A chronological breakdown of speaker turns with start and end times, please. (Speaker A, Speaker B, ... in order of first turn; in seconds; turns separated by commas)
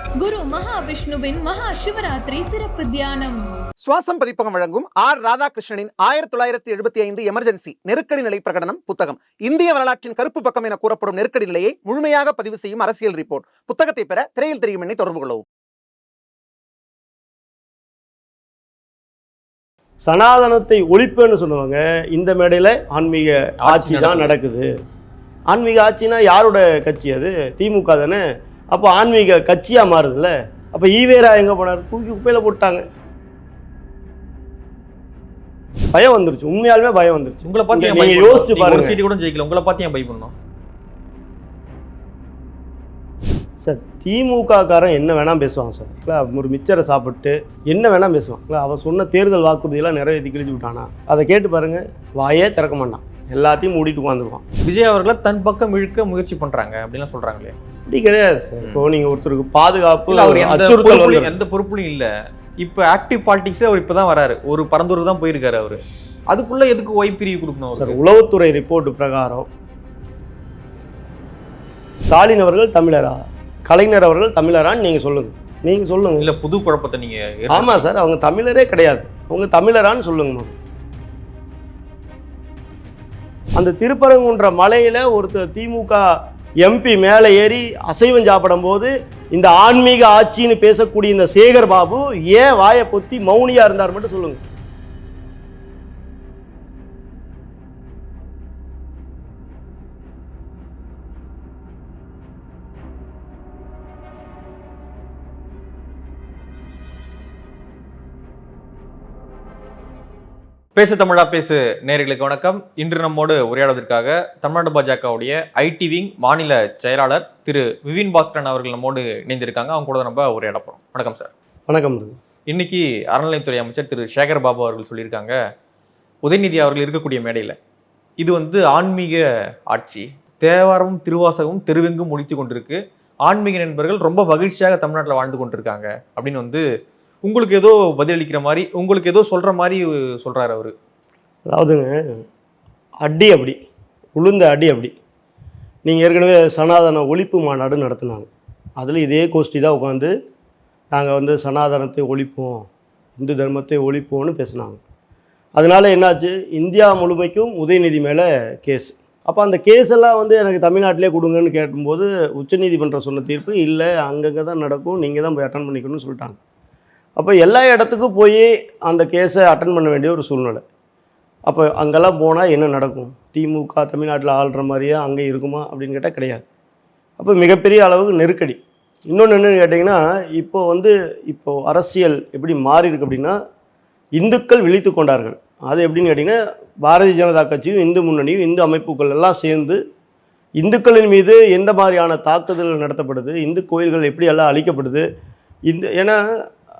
Speaker A: 0.2-3.3, Speaker B: 3.9-15.4, Speaker C: 20.0-24.7, Speaker D: 23.6-24.3, Speaker C: 25.5-28.2, Speaker C: 28.7-32.8, Speaker C: 35.9-39.0, Speaker D: 37.4-40.3, Speaker C: 43.6-54.4, Speaker D: 54.6-57.5, Speaker C: 57.9-61.3, Speaker D: 60.1-62.1, Speaker D: 62.6-68.0, Speaker C: 67.8-69.5, Speaker C: 72.1-76.3, Speaker D: 76.2-77.8, Speaker C: 77.5-80.5, Speaker C: 83.5-86.0, Speaker C: 86.6-94.4, Speaker D: 110.7-121.3, Speaker C: 121.7-122.1, Speaker D: 122.5-125.3, Speaker D: 126.2-127.6, Speaker D: 128.2-136.6, Speaker D: 137.2-140.7, Speaker C: 141.4-142.2, Speaker C: 143.0-143.6, Speaker C: 144.2-144.9, Speaker C: 145.8-150.1, Speaker C: 150.9-152.7, Speaker C: 153.2-154.8, Speaker C: 155.5-166.4, Speaker C: 167.2-170.6, Speaker C: 171.5-176.4, Speaker C: 177.2-178.6, Speaker C: 179.1-183.4, Speaker C: 184.2-189.8, Speaker C: 190.6-195.0, Speaker C: 195.7-196.2